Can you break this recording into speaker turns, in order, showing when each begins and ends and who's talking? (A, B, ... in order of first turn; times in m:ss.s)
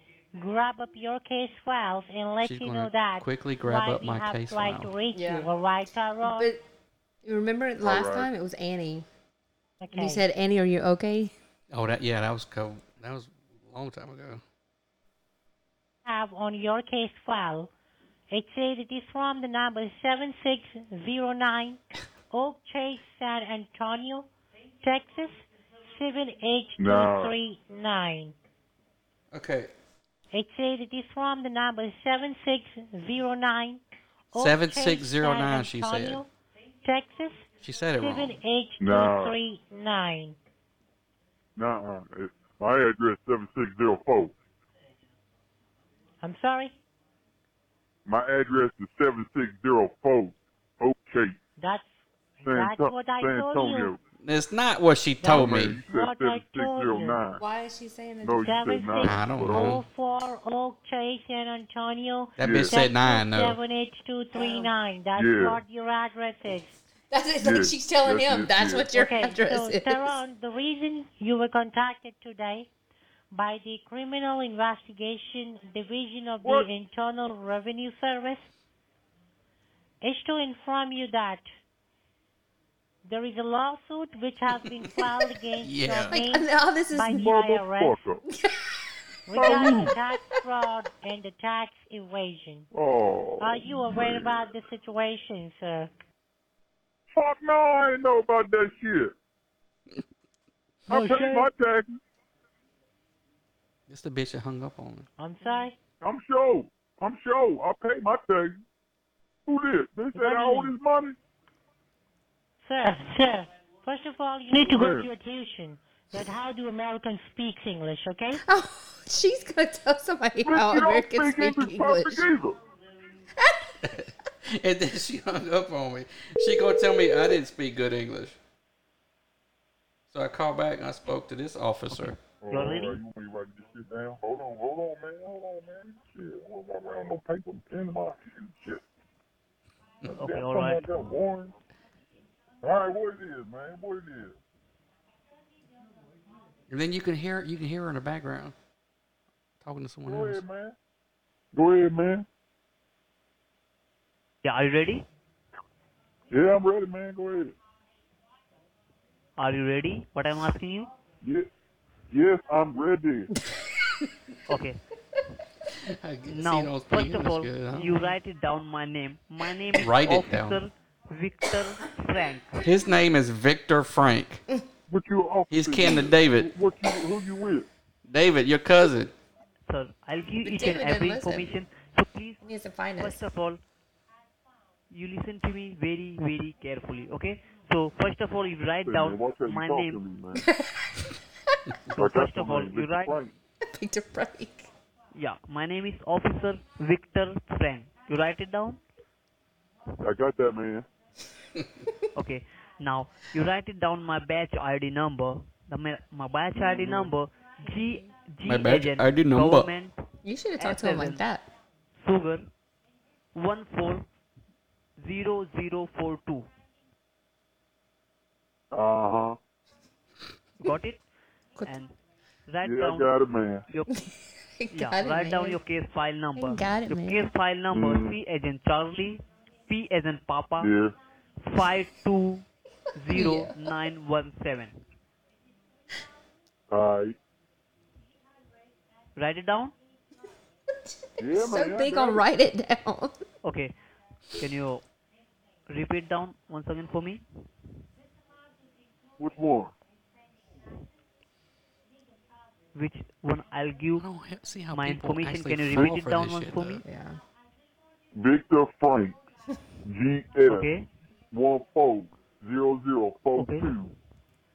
0:00.4-0:06.5 A
0:02.4-0:04.9 B
0:05.1-0:05.5 C
0:06.2-0:06.6 C
0:07.2-0:09.1 C
0:07.8-0:08.3 D
0:09.8-0:10.2 A
0:09.9-0:11.3 C
0:11.7-0:14.4 B
0:16.0-0:17.7 A
0:18.3-0:24.3 A
0:24.8-0:28.4 A
0:26.8-0:27.4 D
0:29.3-0:29.7 B
0:30.3-0:36.3 A
0:34.3-0:36.2 B
0:36.8-0:40.4 A
0:37.6-0:38.4 B
0:38.8-0:39.4 D
0:41.6-0:44.3 D
0:46.2-0:46.8 A
0:48.1-0:51.4 D
0:51.6-0:51.9 A
0:52.4-0:53.9 A
0:52.4-0:54.0 D
0:54.2-0:55.8 B
0:55.2-0:57.2 A
0:55.3-0:57.4 D
0:57.4-0:58.6 C
0:58.2-0:59.8 D
0:58.4-1:06.8 A
0:59.0-0:59.8 B
1:02.4-1:03.6 B
1:02.4-1:02.7 D
1:04.3-1:04.7 C
1:05.2-1:05.6 D
1:07.1-1:10.1 C
1:07.4-1:08.9 D
1:08.9-1:12.7 A
1:13.3-1:18.5 A
1:20.0-1:21.5 A
1:23.0-1:28.0 A
1:25.6-1:26.2 B
1:26.1-1:27.3 C
1:27.1-1:28.2 D
1:28.3-1:28.7 C
1:29.3-1:32.7 A
1:29.3-1:29.9 D
1:29.4-1:29.9 C
1:32.7-1:34.5 D
1:33.4-1:35.9 A
1:37.1-1:39.1 D
1:40.9-1:42.0 D
1:40.9-1:41.5 A
1:43.9-1:45.1 B
1:45.2-1:45.8 A
1:46.0-1:48.6 D
1:49.5-1:51.2 D
1:50.2-1:50.7 A
1:52.6-1:58.4 A
1:54.6-1:55.1 D
1:58.4-2:02.2 C
2:00.4-2:02.6 D
2:03.4-2:03.7 C
2:03.8-2:08.4 B
2:10.1-2:12.2 B
2:11.9-2:13.0 E
2:12.3-2:18.8 D
2:20.1-2:21.5 D
2:20.1-2:20.9 E
2:22.6-2:24.4 D
2:26.7-2:28.6 B
2:29.6-2:30.4 B
2:30.1-2:30.8 D
2:31.5-2:32.3 D
2:34.4-2:35.1 E
2:36.3-2:37.6 D
2:39.4-2:40.9 E
2:41.2-2:41.5 D
2:42.1-2:43.3 D
2:44.5-2:44.8 E
2:45.8-2:47.9 B
2:46.3-2:52.6 E
2:49.8-2:50.6 B
2:52.6-2:54.4 B
2:54.9-2:57.7 D
2:55.5-2:56.5 B
2:58.1-2:59.1 B
2:59.7-3:02.4 E
3:00.4-3:01.5 C
3:02.4-3:03.2 C
3:03.0-3:03.6 E
3:04.9-3:10.0 E
3:08.8-3:10.5 D
3:10.4-3:10.9 C
3:11.9-3:13.2 E
3:12.0-3:13.3 D
3:13.7-3:14.7 C
3:15.2-3:18.8 E
3:20.0-3:20.9 D
3:22.2-3:30.0 E
3:26.6-3:27.1 D
3:28.4-3:29.7 B
3:30.2-3:31.5 C
3:30.6-3:31.2 E
3:32.0-3:32.5 E
3:33.4-3:34.1 E
3:35.0-3:36.5 E
3:38.7-3:39.4 D
3:40.6-3:41.0 E
3:41.6-3:41.9 E
3:42.5-3:43.1 E
3:42.6-3:43.6 D
3:44.6-3:45.6 C
3:44.7-3:50.7 E
3:46.4-3:47.2 C
3:47.7-3:48.2 D
3:50.6-3:51.0 D
3:51.4-3:52.4 E
3:53.0-3:54.8 E
3:53.1-3:53.6 C
3:56.7-3:57.2 D
3:59.2-3:59.7 E
4:01.2-4:02.2 D
4:01.2-4:03.2 C
4:03.4-4:03.7 E
4:04.4-4:04.8 E
4:05.7-4:07.2 E
4:09.2-4:09.7 D
4:12.8-4:14.0 E
4:14.0-4:16.8 B
4:14.7-4:16.8 E
4:16.8-4:17.2 C
4:18.2-4:19.2 D
4:19.8-4:20.7 D
4:20.5-4:20.9 E
4:21.3-4:23.9 D
4:23.4-4:23.8 E